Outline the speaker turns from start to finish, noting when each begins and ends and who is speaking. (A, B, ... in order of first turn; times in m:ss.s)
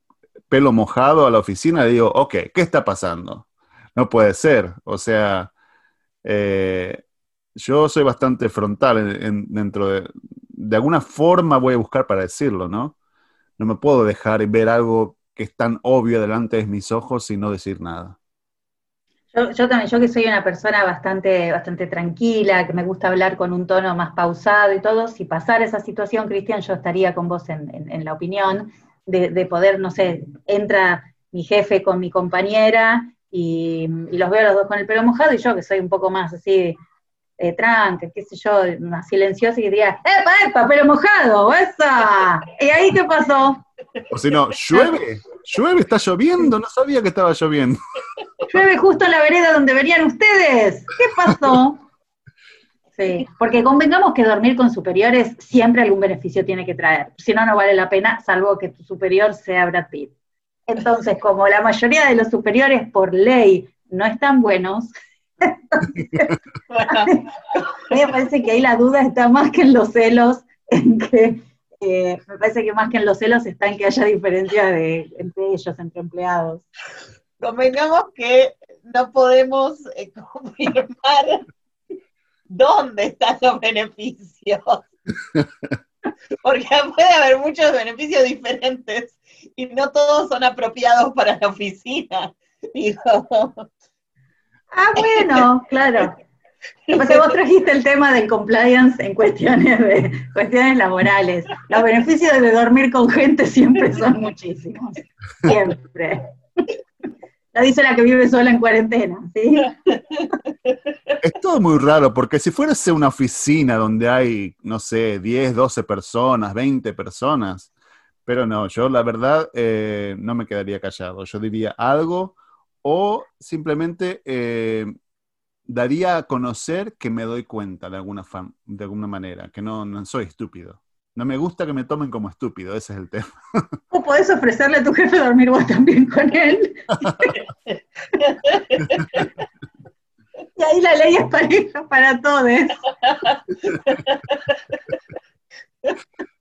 0:00.5-0:05.5 A
0:06.2-0:07.0 A
0:07.6-0:12.9 A
0:13.6-0:18.2 A
0:19.3-0:36.8 B
0:37.4-0:43.6 B
0:44.1-0:47.8 A
0:48.5-0:51.8 B
0:53.0-1:00.1 B
1:00.7-1:06.4 B
1:06.7-1:07.6 C
1:06.9-1:16.6 B
1:17.4-1:21.4 C
1:22.5-1:24.8 C
1:26.4-1:33.6 C
1:34.7-1:36.2 B
1:35.0-1:35.4 C
1:36.9-1:37.2 C
1:36.9-1:46.3 B
1:47.5-1:50.0 B
1:51.2-1:57.7 A
1:58.2-2:04.9 A
2:05.7-2:13.4 A
2:13.9-2:17.3 B
2:18.2-2:19.2 C
2:20.6-2:22.8 B
2:23.8-2:24.4 C